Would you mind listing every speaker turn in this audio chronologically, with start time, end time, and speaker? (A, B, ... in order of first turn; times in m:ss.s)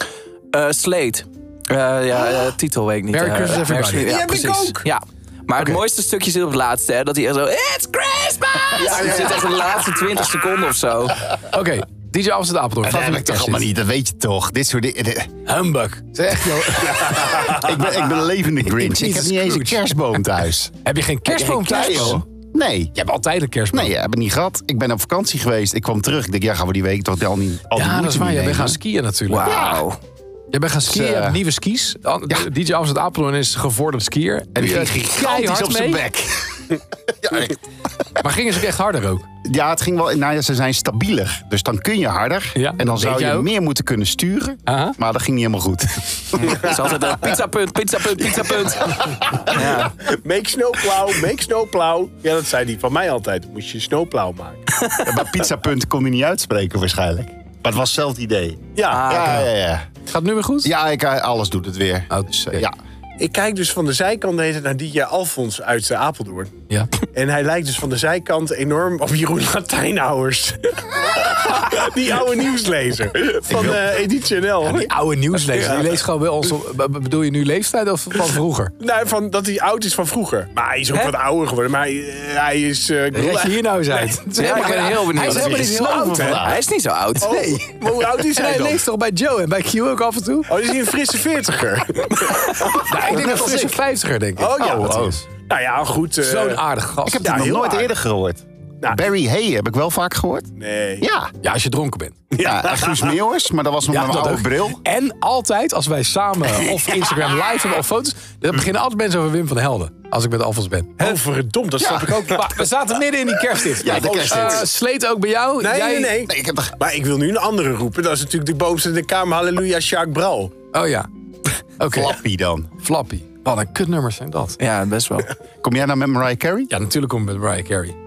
0:00.5-0:11.2 A
0:03.1-0:04.1 B
0:04.0-0:04.8 C
0:08.8-0:09.4 D
0:08.8-0:09.5 C
0:11.5-0:13.7 B
0:12.8-0:15.3 D
0:15.4-0:17.4 B
0:17.0-0:20.7 D
0:18.7-0:19.8 B
0:20.8-0:22.2 B
0:21.3-0:22.2 A
0:21.5-0:22.9 D
0:22.9-0:23.9 B
0:23.7-0:28.8 D
0:27.7-0:29.6 B
0:29.3-0:30.0 A
0:29.4-0:29.8 D
0:30.5-0:36.0 B
0:30.9-0:31.4 D
0:34.5-0:37.6 D
0:38.2-0:39.3 B
0:39.4-0:46.6 D
0:42.5-0:43.5 B
0:44.7-0:45.0 B
0:46.5-0:50.0 A
0:49.0-0:49.5 D
0:50.0-0:54.6 C
0:55.0-0:59.8 D
0:58.7-0:59.1 C
0:58.9-0:59.5 A
1:00.1-1:00.7 B
1:00.6-1:02.7 D
1:02.1-1:02.6 B
1:03.2-1:06.5 C
1:07.1-1:16.0 C
1:13.5-1:13.9 D
1:14.6-1:18.7 B
1:18.8-1:24.1 C
1:23.1-1:26.4 B
1:24.4-1:27.3 A
1:25.2-1:26.6 D
1:27.2-1:28.8 C
1:27.2-1:30.6 B
1:30.5-1:33.8 C
1:32.8-1:35.2 B
1:34.4-1:36.6 C
1:34.6-1:35.2 D
1:36.2-1:37.3 B
1:37.0-1:40.5 D
1:37.2-1:37.9 C
1:40.6-1:41.1 C
1:41.0-1:41.3 D
1:41.4-1:42.2 B
1:42.3-1:43.1 C
1:42.4-1:44.8 D
1:43.9-1:51.2 B
1:46.5-1:47.3 D
1:51.0-1:52.6 C
1:51.8-1:52.3 D
1:52.2-1:56.2 B
1:53.8-1:54.7 D
1:53.8-1:54.7 C
1:55.6-2:00.5 C
1:56.2-1:56.7 D
2:00.7-2:01.1 B
2:01.8-2:02.2 B
2:01.9-2:02.7 D
2:02.8-2:04.6 B
2:04.6-2:05.3 A
2:05.6-2:06.7 D
2:06.7-2:08.0 B